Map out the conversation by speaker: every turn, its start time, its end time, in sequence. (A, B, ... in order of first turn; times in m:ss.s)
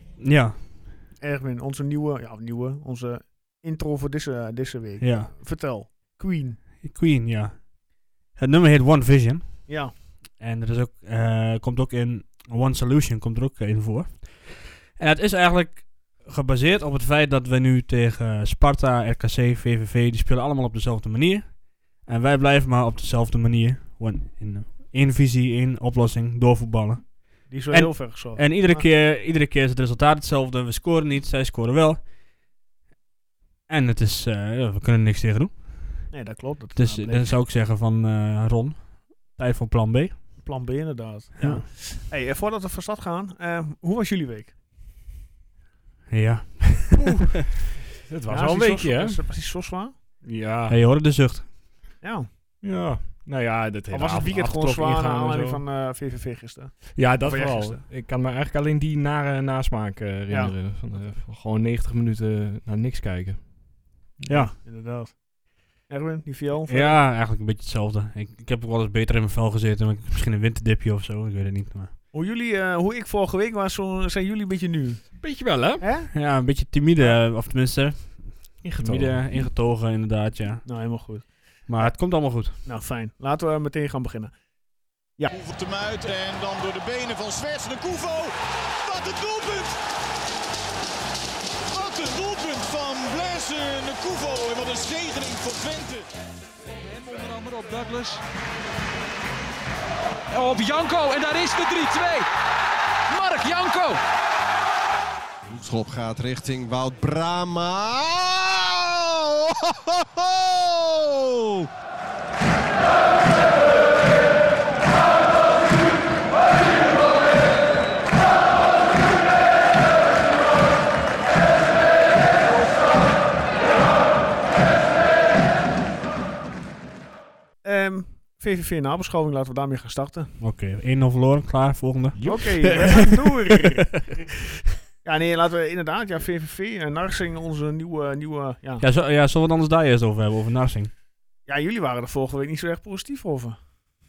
0:00.2-0:00.8 A
0:01.2-0:06.6 B
0:05.0-0:05.4 A
0:06.8-0:07.8 A
0:08.3-0:32.1 A
0:09.7-0:09.9 B
0:27.5-0:28.9 B
0:33.7-0:36.1 A
0:36.1-0:37.4 B
0:36.8-0:40.4 A
0:40.4-0:44.6 B
0:41.4-0:41.6 A
0:46.1-0:47.2 A
0:48.0-0:49.2 C
0:48.3-0:50.0 B
0:50.2-0:50.8 C
0:50.7-0:51.5 A
0:52.0-0:52.3 B
0:52.6-0:55.6 C
0:53.9-0:57.8 B
0:57.0-1:03.5 C
1:00.3-1:00.6 B
1:04.2-1:07.0 B
1:06.7-1:11.9 A
1:12.1-1:16.1 B
1:15.2-1:15.8 C
1:16.1-1:20.8 A
1:18.6-1:19.4 C
1:20.6-1:24.3 B
1:21.7-1:22.5 A
1:25.3-1:29.8 D
1:31.7-1:36.1 D
1:36.7-1:38.2 E
1:40.3-1:42.3 E
1:43.1-1:44.0 E
1:45.5-1:51.7 F
2:07.6-2:10.4 B
2:10.4-2:14.3 A
2:12.1-2:13.0 C
2:12.2-2:14.2 B
2:15.0-2:18.9 B
2:18.8-2:20.9 A
2:21.4-2:23.6 B